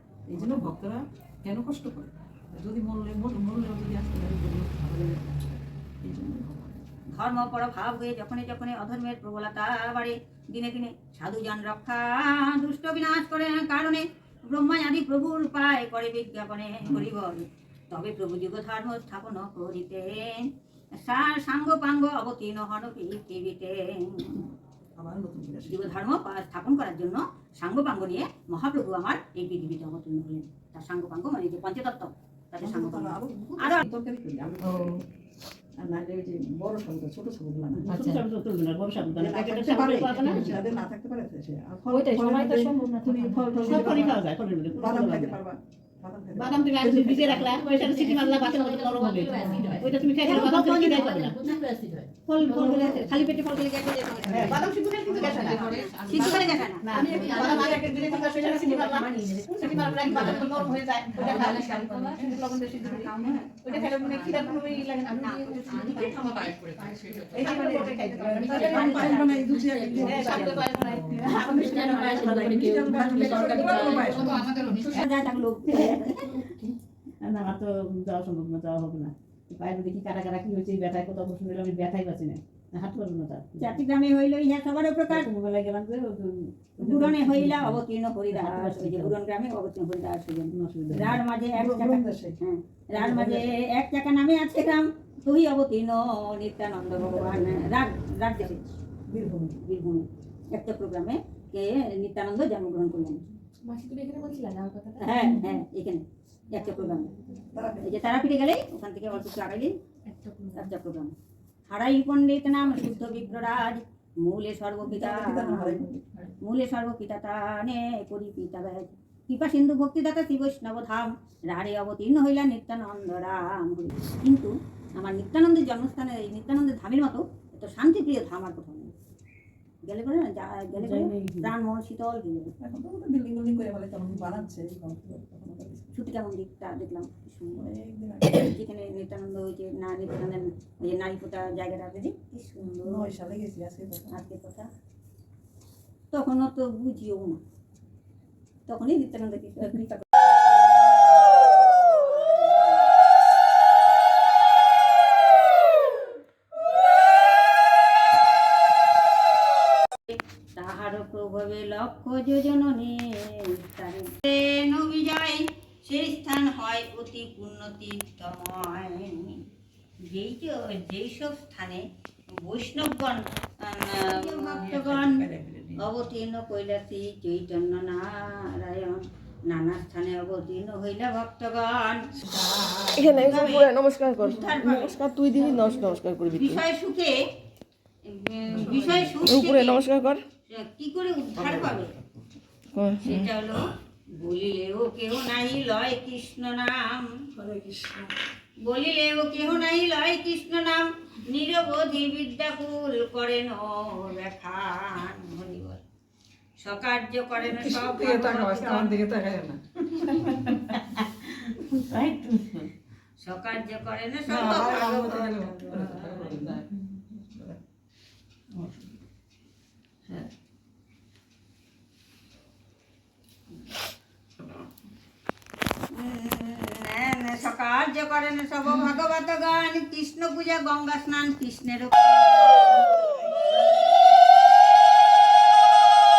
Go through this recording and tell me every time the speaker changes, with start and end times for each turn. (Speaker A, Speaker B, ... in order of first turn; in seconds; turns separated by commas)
Speaker A: 0.3-6.9, Speaker B: 0.4-0.7, Speaker B: 7.1-24.4, Speaker A: 25.0-26.0, Speaker B: 25.7-33.8, Speaker A: 32.6-35.0, Speaker A: 35.8-38.0, Speaker C: 37.8-40.6, Speaker A: 39.2-44.2, Speaker C: 41.9-45.4, Speaker A: 44.8-47.4, Speaker C: 46.4-51.4, Speaker D: 46.8-53.1, Speaker B: 50.2-51.6, Speaker B: 52.3-54.6, Speaker C: 52.4-53.5, Speaker C: 54.2-63.1, Speaker D: 55.0-68.9, Speaker B: 55.2-57.8, Speaker A: 62.8-63.5, Speaker C: 63.6-66.3, Speaker B: 65.2-65.6, Speaker A: 65.7-66.5, Speaker C: 66.8-75.0, Speaker A: 67.3-74.5, Speaker B: 68.5-70.6, Speaker D: 70.8-74.8, Speaker B: 74.8-76.4, Speaker C: 75.7-76.2, Speaker C: 77.2-83.8, Speaker B: 83.6-85.3, Speaker C: 85.1-89.2, Speaker B: 86.8-98.6, Speaker C: 90.5-91.2, Speaker A: 91.5-92.4, Speaker A: 93.0-93.4, Speaker A: 97.0-97.4, Speaker A: 99.1-99.6, Speaker B: 99.6-103.2, Speaker D: 103.6-105.5, Speaker B: 105.0-107.1, Speaker A: 107.5-108.1, Speaker B: 107.8-109.7, Speaker D: 110.1-110.7, Speaker B: 110.5-111.1, Speaker B: 111.7-115.8, Speaker A: 114.8-116.0, Speaker B: 116.4-128.9, Speaker B: 129.9-132.5, Speaker C: 130.7-131.5, Speaker A: 132.6-135.9, Speaker B: 135.9-137.6, Speaker A: 137.6-138.5, Speaker B: 138.3-143.1, Speaker A: 142.8-144.2, Speaker B: 144.1-144.7, Speaker B: 146.1-147.4, Speaker B: 148.7-152.8, Speaker B: 160.1-169.4, Speaker B: 170.1-171.8, Speaker B: 172.4-175.2, Speaker A: 174.0-175.8, Speaker B: 175.8-182.1, Speaker A: 182.3-183.1, Speaker E: 183.0-186.6, Speaker B: 183.0-185.0, Speaker B: 186.3-187.2, Speaker B: 188.1-189.9, Speaker A: 188.5-189.3, Speaker E: 189.2-190.2, Speaker B: 190.5-191.9, Speaker A: 191.4-191.8, Speaker E: 192.8-193.3, Speaker B: 193.0-193.6, Speaker B: 194.2-197.1, Speaker A: 197.4-198.1, Speaker B: 198.7-205.8, Speaker B: 206.6-209.0, Speaker A: 207.4-210.5, Speaker C: 210.3-212.7, Speaker B: 213.2-216.4, Speaker A: 214.3-216.7, Speaker A: 217.3-217.6, Speaker C: 218.6-218.8, Speaker B: 225.9-234.1